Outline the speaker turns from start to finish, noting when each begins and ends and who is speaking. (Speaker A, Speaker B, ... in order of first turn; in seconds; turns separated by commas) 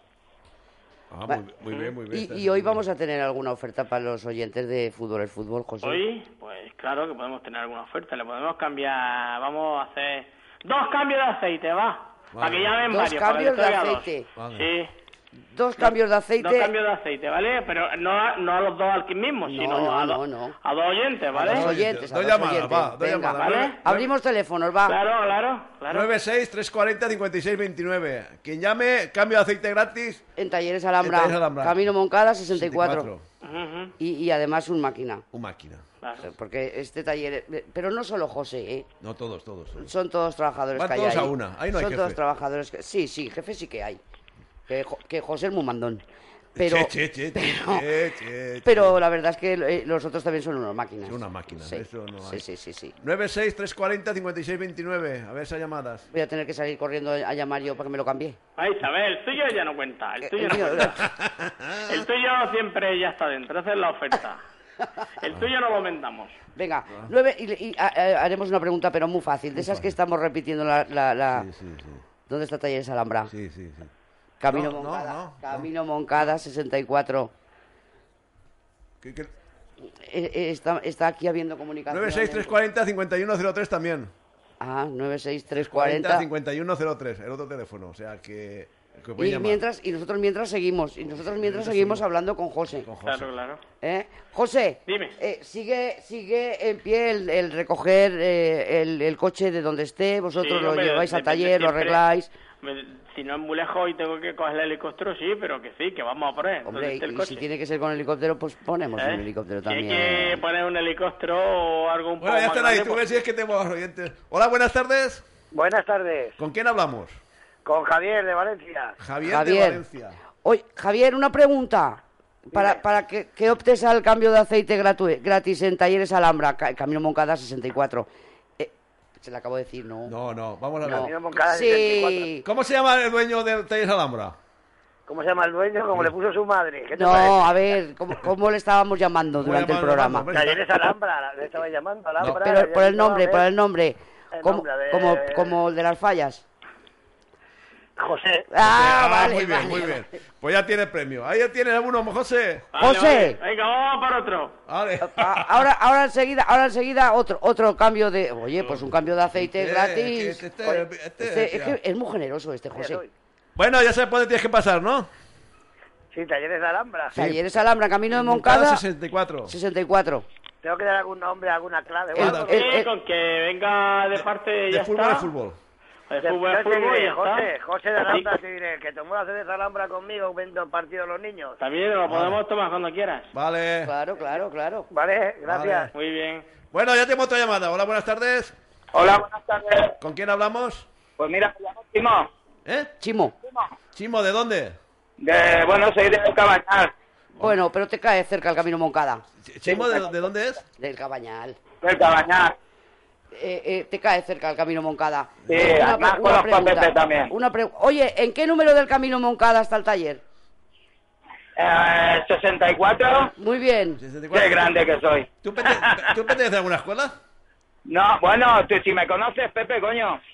Speaker A: 1.1-2.8, Speaker B: 2.1-6.0, Speaker C: 5.8-14.9, Speaker A: 12.3-12.7, Speaker B: 12.9-14.3, Speaker A: 14.4-14.7, Speaker B: 15.5-16.7, Speaker C: 15.8-21.7, Speaker B: 19.5-20.6, Speaker B: 21.3-25.0, Speaker A: 21.4-24.1, Speaker C: 23.4-23.8, Speaker C: 24.9-26.1, Speaker A: 25.9-30.2, Speaker B: 30.4-33.1, Speaker A: 31.0-31.9, Speaker A: 32.5-33.2, Speaker C: 33.4-33.9, Speaker B: 34.0-35.2, Speaker A: 35.3-35.9, Speaker C: 36.0-36.3, Speaker B: 36.2-38.9, Speaker A: 39.0-39.9, Speaker B: 39.8-44.0, Speaker A: 40.8-42.2, Speaker B: 44.7-46.0, Speaker B: 46.6-47.9, Speaker A: 46.6-49.0, Speaker B: 48.6-53.0, Speaker A: 51.0-52.4, Speaker A: 53.0-56.1, Speaker B: 56.1-58.4, Speaker C: 58.6-61.1, Speaker B: 60.2-61.0, Speaker A: 61.0-62.0, Speaker C: 61.9-64.4, Speaker C: 65.2-66.4, Speaker B: 66.6-71.5, Speaker A: 69.5-69.9, Speaker A: 71.3-72.0, Speaker B: 72.3-73.3, Speaker A: 73.3-73.9, Speaker B: 74.4-77.3, Speaker A: 74.5-75.7, Speaker A: 79.0-79.3, Speaker B: 79.9-82.5, Speaker A: 81.9-84.1, Speaker B: 84.6-86.3, Speaker A: 85.6-89.6, Speaker B: 89.2-92.9, Speaker A: 91.1-92.0, Speaker A: 92.8-93.3, Speaker C: 93.0-93.6, Speaker B: 93.8-102.3, Speaker C: 94.9-95.2, Speaker C: 100.4-102.0, Speaker C: 102.6-107.5, Speaker B: 106.7-110.4, Speaker C: 109.0-113.0, Speaker A: 112.2-115.2, Speaker D: 115.5-116.3, Speaker A: 116.4-117.2, Speaker D: 117.7-119.0, Speaker A: 119.0-120.2, Speaker B: 119.2-119.8, Speaker B: 120.4-130.1, Speaker D: 122.5-122.8, Speaker A: 130.1-131.1, Speaker B: 130.8-132.4, Speaker D: 130.9-132.3, Speaker A: 132.4-134.4, Speaker D: 135.1-137.6, Speaker B: 136.9-140.3, Speaker A: 139.4-140.7, Speaker D: 140.3-143.5, Speaker B: 142.2-146.4, Speaker D: 144.4-145.5, Speaker D: 148.0-148.5, Speaker B: 148.5-150.0, Speaker A: 148.6-152.7, Speaker C: 152.7-154.6, Speaker B: 152.8-153.4, Speaker A: 154.7-155.7, Speaker B: 155.0-160.5, Speaker A: 159.3-161.8, Speaker B: 161.2-163.0, Speaker D: 162.8-163.1, Speaker A: 163.6-165.1, Speaker D: 166.1-167.1, Speaker B: 167.1-168.8, Speaker A: 167.1-167.4, Speaker A: 168.1-169.6, Speaker B: 169.5-170.3, Speaker D: 170.6-172.7, Speaker B: 172.2-172.9, Speaker A: 172.2-172.5, Speaker C: 172.5-175.3, Speaker A: 174.2-175.6, Speaker C: 176.1-177.5, Speaker D: 176.2-181.6, Speaker C: 178.0-178.3, Speaker C: 181.6-183.3, Speaker A: 182.1-182.4, Speaker A: 183.3-183.9, Speaker B: 183.8-184.9, Speaker D: 184.9-185.9, Speaker A: 185.5-185.9, Speaker C: 185.9-186.5, Speaker A: 186.7-188.5, Speaker E: 188.9-190.0, Speaker A: 190.0-190.9, Speaker E: 191.2-192.3, Speaker A: 192.7-192.9, Speaker B: 193.0-193.3, Speaker A: 193.9-194.8, Speaker E: 195.2-196.9, Speaker B: 197.4-199.2, Speaker A: 199.4-200.6, Speaker B: 200.8-201.6, Speaker E: 201.8-202.6, Speaker B: 203.3-210.2, Speaker E: 205.5-207.3, Speaker E: 211.6-213.3, Speaker B: 213.4-214.0, Speaker A: 214.0-214.7, Speaker E: 214.3-216.1, Speaker A: 215.4-217.2, Speaker E: 217.9-220.2